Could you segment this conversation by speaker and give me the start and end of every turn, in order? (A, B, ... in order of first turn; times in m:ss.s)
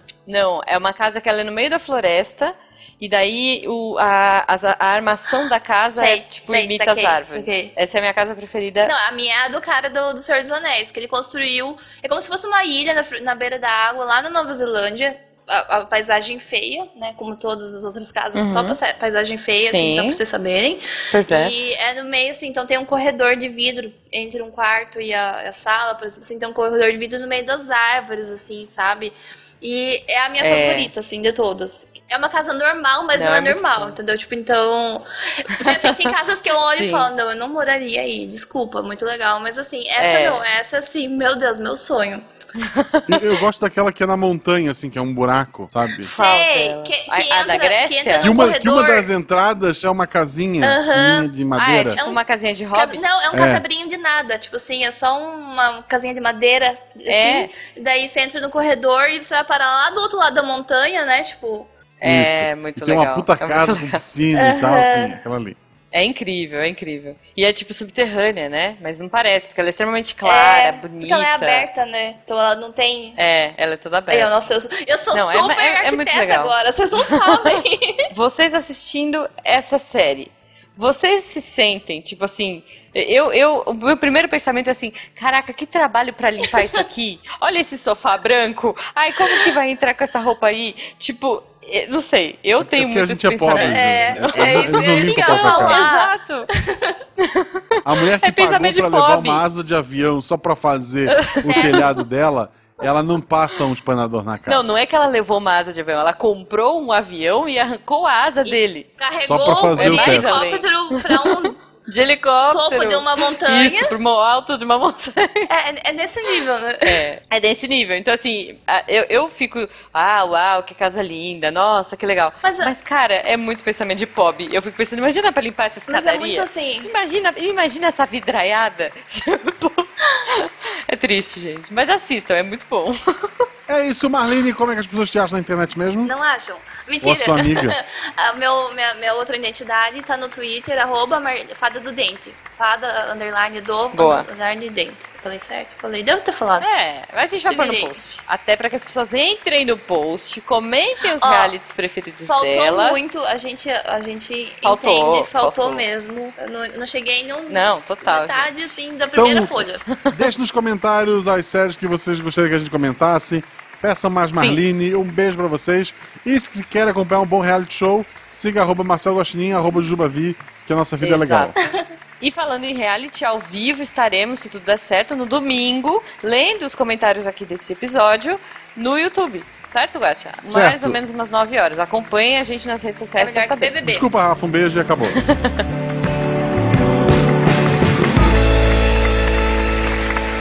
0:00.3-0:08.9 A
0:05.9-0:07.7 B
0:08.8-0:42.2 B
0:18.3-0:18.8 A
0:19.5-0:20.2 A
0:21.1-0:21.5 A
0:30.4-0:30.9 A
0:33.1-0:34.0 A
0:35.5-0:36.1 A
0:36.6-0:37.1 A
0:40.0-0:40.4 A
0:42.6-0:43.4 A
0:43.1-0:46.1 C
0:46.0-0:49.1 B
0:46.0-0:48.4 A
0:48.2-0:52.0 C
0:50.6-0:51.3 B
0:51.5-0:53.3 A
0:51.9-0:52.2 B
0:52.7-1:01.7 B
0:53.3-0:53.6 C
0:57.0-0:57.5 A
1:02.0-1:04.0 A
1:02.0-1:05.6 C
1:04.3-1:05.2 B
1:05.9-1:11.7 A
1:10.2-1:13.2 B
1:13.2-1:14.3 A
1:14.1-1:18.1 B
1:15.1-1:17.6 A
1:18.1-1:36.5 A
1:32.6-1:35.8 C
1:33.5-1:37.0 B
1:37.2-1:39.4 A
1:37.8-1:44.7 C
1:41.1-1:41.9 A
1:41.4-1:41.9 B
1:44.5-1:55.5 A
1:48.4-1:51.6 B
1:49.2-1:50.3 C
1:52.5-1:53.9 B
1:55.5-1:57.1 B
1:56.8-2:13.4 A
2:02.4-2:02.7 B
2:05.9-2:06.9 B
2:13.7-2:16.1 C
2:16.0-2:26.7 B
2:17.0-2:17.8 C
2:23.9-2:24.3 A
2:26.6-2:33.1 A
2:27.4-2:28.0 B
2:31.2-2:31.5 B
2:32.2-2:39.8 B
2:34.6-2:35.8 A
2:37.5-2:38.7 A
2:39.2-2:51.6 C
2:39.9-2:40.2 A
2:44.3-2:44.6 A
2:51.0-2:51.6 A
2:52.2-3:03.7 A
3:00.5-3:01.0 C
3:03.2-3:04.1 B
3:03.8-3:05.2 C
3:05.1-3:05.6 A